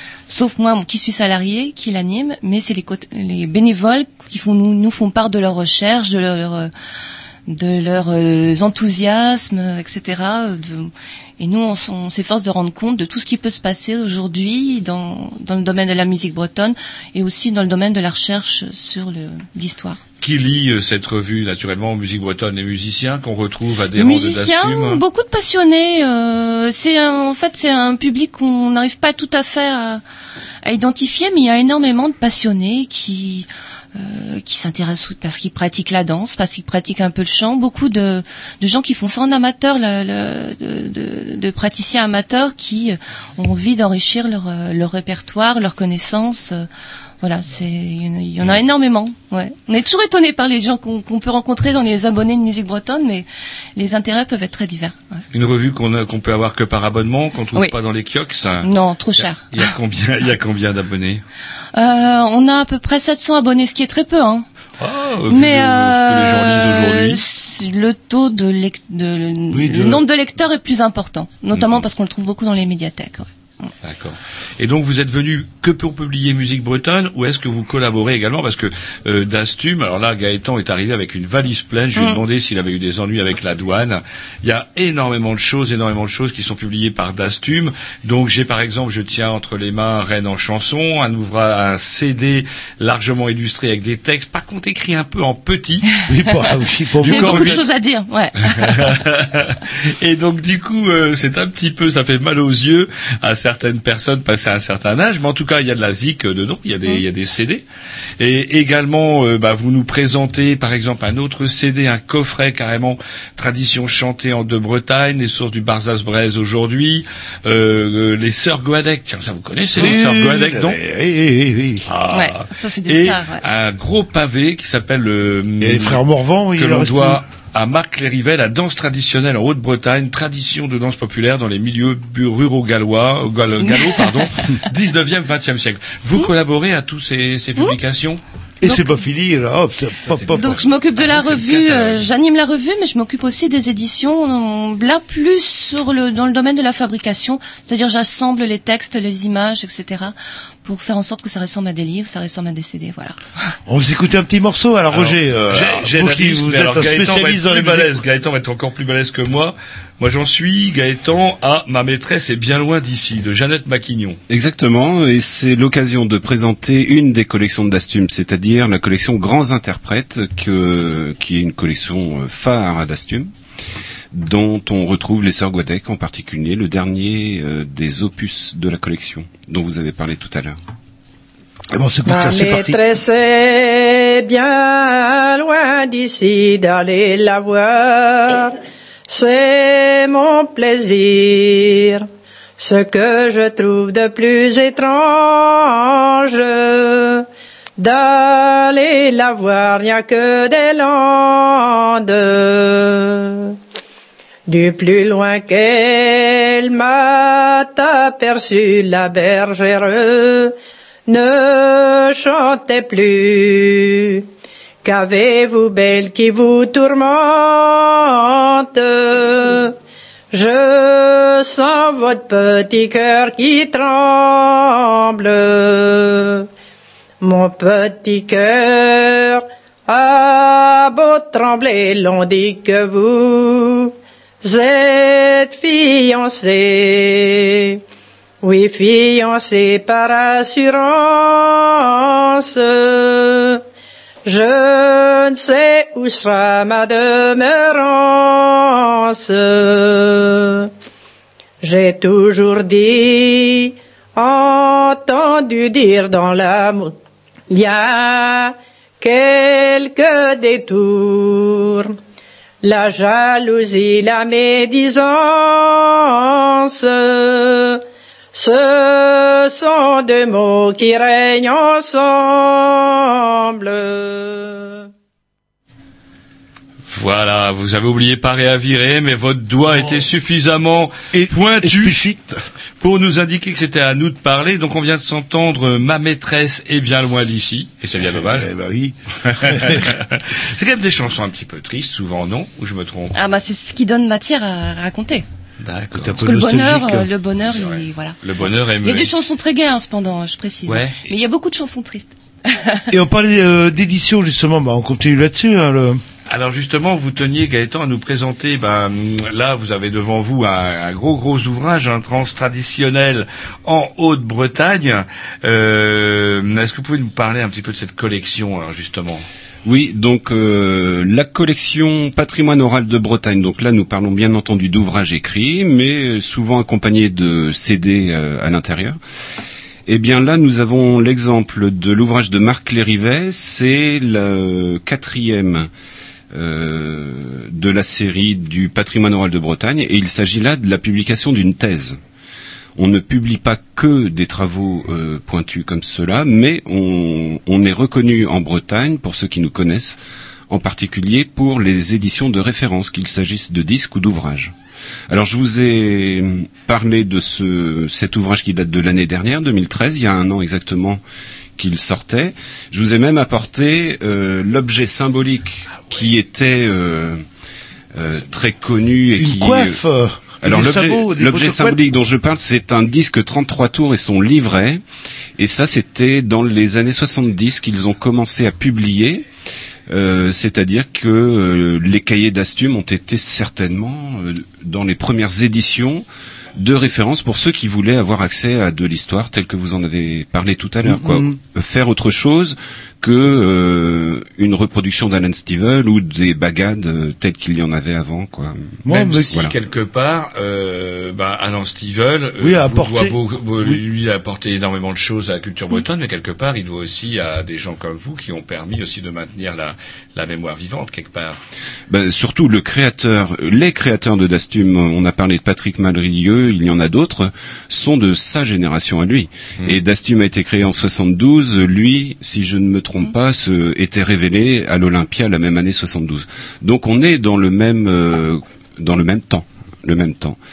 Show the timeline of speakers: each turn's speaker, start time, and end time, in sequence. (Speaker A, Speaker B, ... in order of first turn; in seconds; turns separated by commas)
Speaker A: 0.3-6.7, Speaker A: 7.5-20.0, Speaker B: 20.2-25.0, Speaker A: 23.9-30.0, Speaker A: 30.6-46.7, Speaker A: 47.2-55.2, Speaker B: 55.3-61.2, Speaker A: 58.6-59.7, Speaker A: 61.7-64.5, Speaker B: 64.8-67.2, Speaker A: 65.3-73.3, Speaker C: 69.5-70.0, Speaker B: 71.5-71.8, Speaker B: 73.8-95.8, Speaker A: 81.9-82.2, Speaker C: 96.1-97.6, Speaker A: 97.0-99.0, Speaker B: 97.0-97.6, Speaker B: 98.4-107.6, Speaker B: 108.2-120.8, Speaker C: 119.7-121.9, Speaker B: 121.8-126.0, Speaker A: 122.1-123.5, Speaker C: 125.6-127.2, Speaker B: 126.5-138.2, Speaker A: 133.6-134.3, Speaker C: 138.6-140.6, Speaker A: 138.6-139.0, Speaker B: 140.0-142.1, Speaker A: 140.3-153.5, Speaker C: 153.7-158.0, Speaker B: 154.9-164.2, Speaker D: 164.3-173.3, Speaker D: 174.1-180.6, Speaker C: 181.7-182.8, Speaker E: 182.1-188.6, Speaker E: 189.1-192.1, Speaker E: 192.6-197.2, Speaker E: 197.8-203.6, Speaker E: 204.5-210.5, Speaker E: 211.1-214.2, Speaker E: 214.8-219.7, Speaker E: 220.3-226.5, Speaker E: 227.2-237.8, Speaker E: 238.4-243.6, Speaker E: 244.2-250.7, Speaker E: 251.6-261.9, Speaker E: 262.6-267.8, Speaker E: 268.3-274.9, Speaker B: 276.9-282.0, Speaker C: 281.1-282.4, Speaker B: 282.8-288.5, Speaker C: 288.1-289.9, Speaker B: 289.3-293.2, Speaker A: 293.1-295.2, Speaker B: 295.6-296.2, Speaker C: 295.9-297.0, Speaker A: 296.2-298.2, Speaker B: 297.4-299.1, Speaker A: 298.8-302.9, Speaker B: 300.6-301.0, Speaker C: 302.9-306.0, Speaker B: 306.3-319.2, Speaker D: 319.6-329.0, Speaker D: 329.9-335.7, Speaker D: 336.3-342.0, Speaker D: 342.8-350.0, Speaker D: 350.5-354.5, Speaker D: 355.1-361.0, Speaker D: 361.6-367.2, Speaker B: 365.7-366.1, Speaker D: 367.9-369.8, Speaker C: 369.2-371.8, Speaker D: 370.4-374.8, Speaker D: 375.4-379.2, Speaker D: 379.9-386.0, Speaker D: 386.6-399.5, Speaker C: 390.8-391.4, Speaker C: 398.8-399.3, Speaker B: 398.9-411.4, Speaker C: 402.4-403.8, Speaker D: 411.9-430.4